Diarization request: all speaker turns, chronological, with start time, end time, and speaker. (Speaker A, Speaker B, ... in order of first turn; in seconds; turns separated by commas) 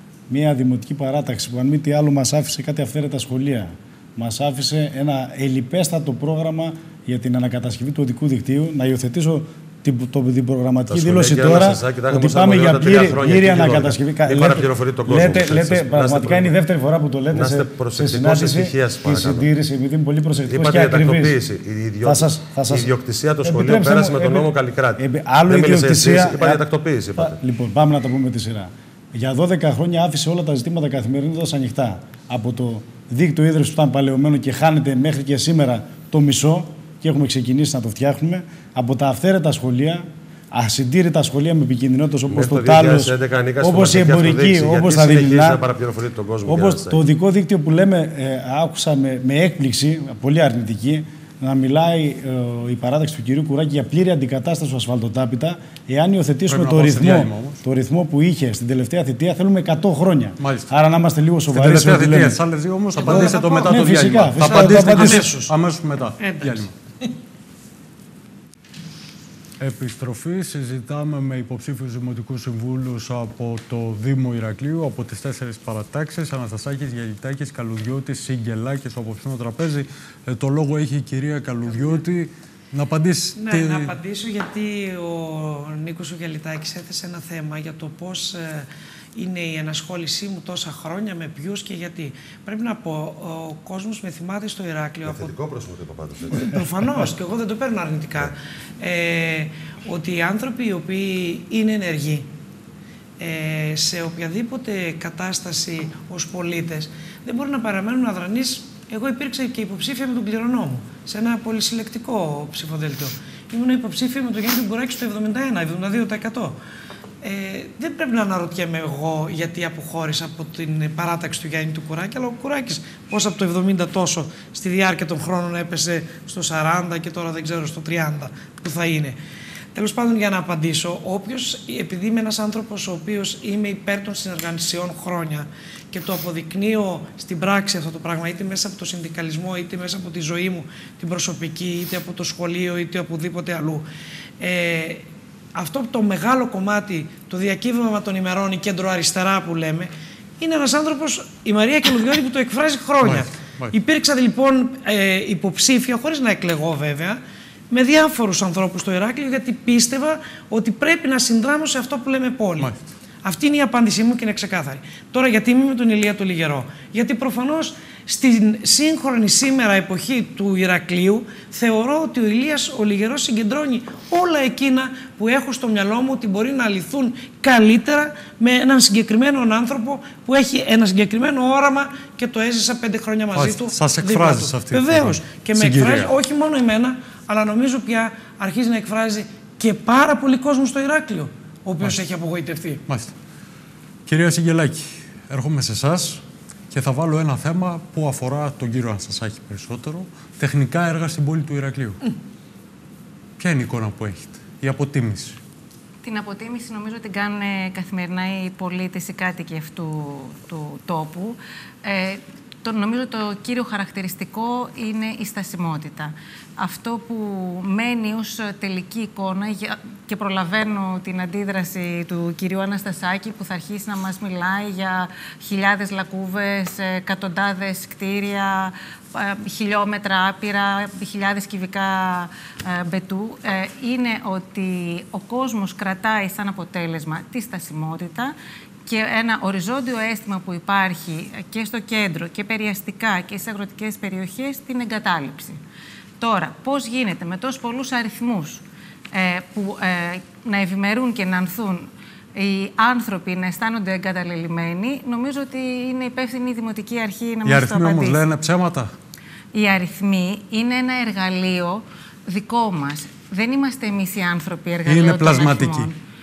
Speaker A: 0.3-21.4, Speaker B: 10.9-16.5, Speaker B: 17.3-19.5, Speaker B: 20.5-27.4, Speaker A: 22.0-22.9, Speaker A: 23.4-26.6, Speaker A: 27.2-45.6, Speaker B: 42.3-47.0, Speaker A: 46.5-62.4, Speaker C: 56.5-57.6, Speaker C: 60.4-60.7, Speaker C: 61.5-66.7, Speaker D: 63.0-65.5, Speaker A: 63.0-65.3, Speaker D: 66.2-67.1, Speaker C: 69.6-84.0, Speaker D: 81.7-82.0, Speaker D: 83.4-95.3, Speaker B: 95.0-96.6, Speaker D: 96.3-102.3, Speaker D: 103.2-116.6, Speaker D: 117.2-129.2, Speaker D: 129.8-143.8, Speaker D: 144.4-162.7, Speaker C: 153.0-153.8, Speaker C: 162.6-162.9, Speaker D: 163.2-192.8, Speaker C: 183.3-186.1, Speaker C: 192.9-193.2, Speaker C: 194.1-202.0, Speaker C: 203.4-205.4, Speaker E: 206.0-238.3, Speaker E: 238.9-245.6, Speaker E: 246.2-258.2, Speaker C: 257.4-258.9, Speaker E: 259.5-266.0, Speaker C: 264.9-265.9